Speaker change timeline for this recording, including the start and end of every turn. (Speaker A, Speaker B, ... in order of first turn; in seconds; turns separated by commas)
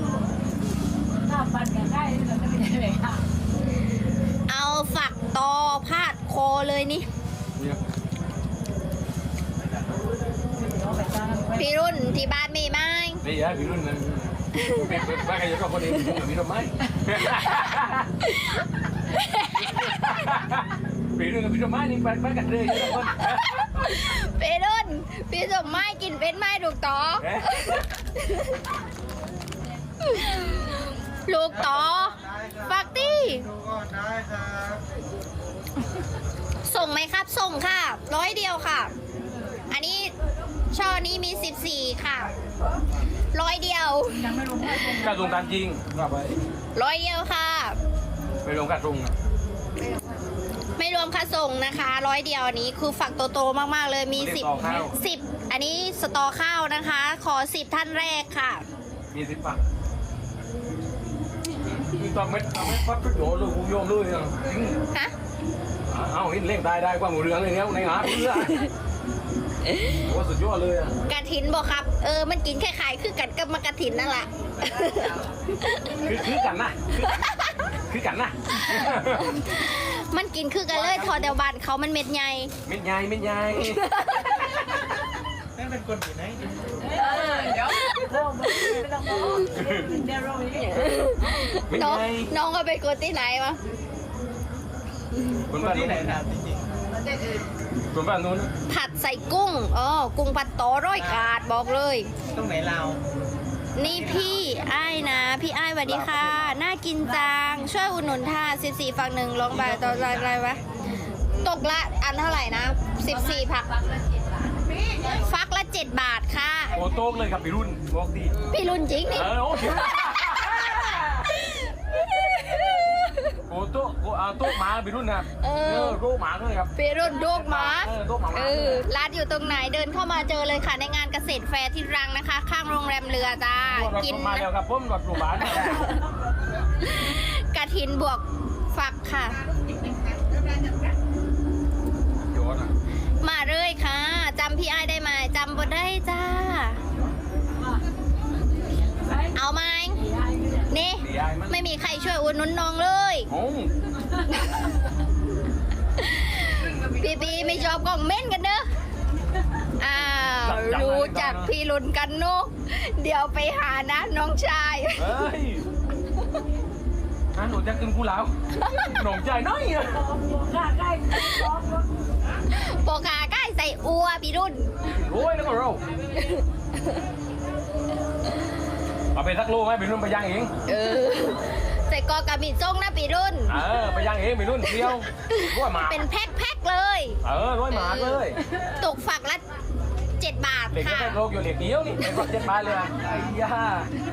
Speaker A: 1.2-3.2, Speaker B: 4.5-7.1, Speaker A: 10.8-11.6, Speaker B: 11.6-13.2, Speaker C: 13.2-18.1, Speaker B: 14.5-15.1, Speaker B: 18.2-20.4, Speaker C: 19.6-23.6, Speaker B: 22.8-28.6, Speaker C: 27.2-27.8, Speaker B: 30.0-33.5, Speaker D: 33.5-34.8, Speaker B: 36.6-38.9, Speaker B: 39.7-40.1, Speaker B: 40.7-42.3, Speaker B: 43.3-45.1, Speaker A: 44.2-45.4, Speaker C: 44.9-46.4, Speaker B: 46.7-47.8, Speaker C: 48.4-49.1, Speaker B: 50.8-58.6, Speaker C: 54.1-55.0, Speaker C: 59.1-59.6, Speaker C: 61.9-64.8, Speaker C: 65.9-68.7, Speaker C: 69.9-70.9, Speaker B: 71.1-76.3, Speaker C: 75.9-77.2, Speaker C: 77.9-79.4, Speaker B: 78.6-82.5, Speaker C: 80.7-81.3, Speaker C: 82.7-84.0, Speaker B: 83.6-84.9, Speaker D: 85.5-86.5, Speaker A: 86.8-91.4, Speaker B: 87.6-88.7, Speaker C: 89.5-89.9, Speaker B: 90.6-93.6, Speaker C: 91.7-92.3, Speaker C: 95.5-96.1, Speaker D: 95.5-97.1, Speaker C: 97.9-98.5, Speaker B: 98.7-102.1, Speaker D: 102.3-103.0, Speaker B: 103.8-110.6, Speaker D: 103.9-104.2, Speaker C: 105.8-106.6, Speaker C: 109.5-110.3, Speaker B: 111.4-113.8, Speaker B: 115.0-116.8, Speaker C: 116.7-118.4, Speaker B: 118.5-123.4, Speaker C: 119.1-121.2, Speaker C: 123.5-128.8, Speaker B: 125.4-126.0, Speaker B: 126.8-134.5, Speaker C: 133.6-135.9, Speaker B: 135.4-136.0, Speaker B: 136.8-139.4, Speaker C: 142.3-142.7, Speaker B: 143.2-146.8, Speaker B: 149.3-150.0, Speaker B: 150.7-153.3, Speaker C: 151.0-151.5, Speaker C: 153.3-153.7, Speaker B: 154.3-154.6, Speaker B: 156.0-158.7, Speaker B: 159.8-165.2, Speaker C: 160.0-161.5, Speaker C: 165.0-165.7, Speaker C: 167.3-170.1, Speaker B: 168.6-168.8, Speaker A: 169.9-171.9, Speaker B: 171.1-171.5, Speaker B: 172.5-174.7, Speaker C: 174.8-175.8, Speaker B: 176.2-176.4, Speaker C: 179.1-180.5, Speaker B: 180.7-183.6, Speaker C: 183.5-186.0, Speaker B: 185.3-188.2, Speaker C: 187.2-188.4, Speaker B: 188.8-189.4, Speaker B: 190.2-191.2, Speaker C: 190.7-193.9, Speaker B: 192.0-192.3